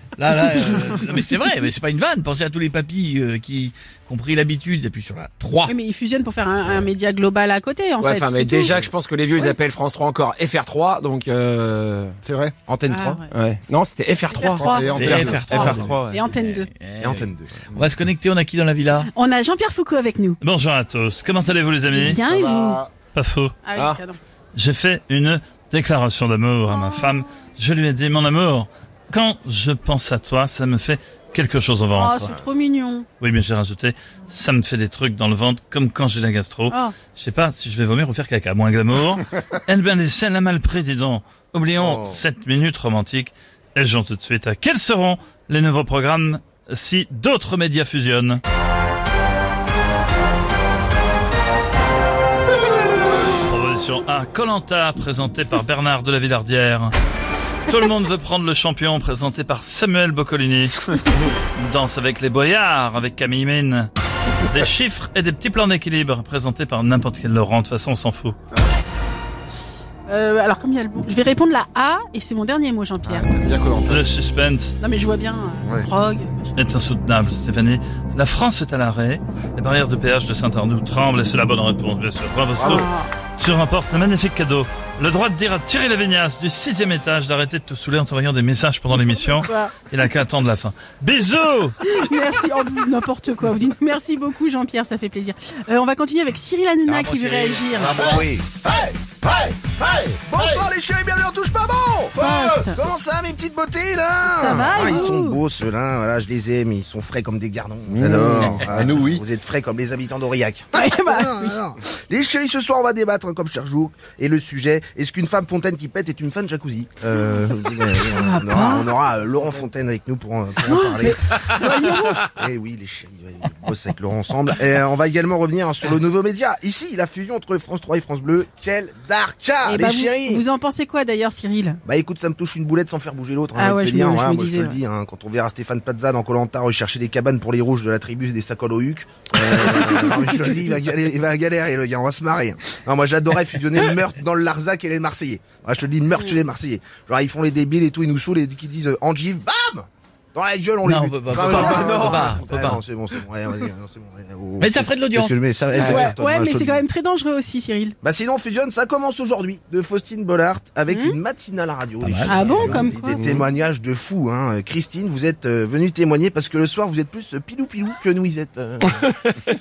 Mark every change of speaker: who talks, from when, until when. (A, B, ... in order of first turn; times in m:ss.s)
0:00.2-0:05.7 A
0:05.7-0:08.8 B
0:08.0-0:12.2 C
0:12.2-0:12.5 D
0:12.7-0:13.2 E
0:12.9-0:13.3 B
0:13.3-0:16.2 C
0:14.3-0:16.7 B
0:14.5-0:15.8 D
0:14.9-0:19.1 A
0:17.0-0:17.8 E
0:19.1-0:20.4 B
0:20.4-0:22.2 F
0:21.9-0:22.8 B
0:22.3-0:22.9 D
0:23.1-0:23.5 F
0:23.6-0:24.2 B
0:24.5-0:32.3 F
0:26.7-0:27.1 B
0:31.9-0:33.0 B
0:33.2-0:48.4 F
0:36.7-0:36.9 B
0:53.4-0:56.9 F
0:57.7-1:00.9 F
1:01.6-1:03.9 F
1:04.4-1:08.4 F
1:10.1-1:13.3 B
1:13.0-1:14.1 D
1:13.9-1:14.8 F
1:14.8-1:16.5 B
1:15.6-1:15.9 D
1:16.5-1:31.8 F
1:22.6-1:22.8 C
1:22.6-1:23.1 B
1:29.0-1:29.7 B
1:31.9-1:38.1 B
1:36.8-1:38.3 A
1:37.8-1:38.4 E
1:38.6-1:40.6 D
1:40.2-2:01.6 E
1:42.2-1:42.8 B
1:44.2-1:45.4 B
1:44.4-1:44.9 D
1:47.9-1:49.2 D
1:50.7-1:51.6 B
1:58.0-1:58.9 B
2:00.6-2:02.3 B
2:02.2-2:10.4 E
2:09.6-2:11.8 B
2:11.8-2:36.8 E
2:13.5-2:14.8 B
2:30.8-2:32.8 A
2:34.6-2:35.4 A
2:35.7-2:36.1 C
2:35.8-2:38.0 B
2:38.0-2:49.3 E
2:40.9-2:41.2 B
2:42.2-2:43.2 B
2:43.1-2:43.5 C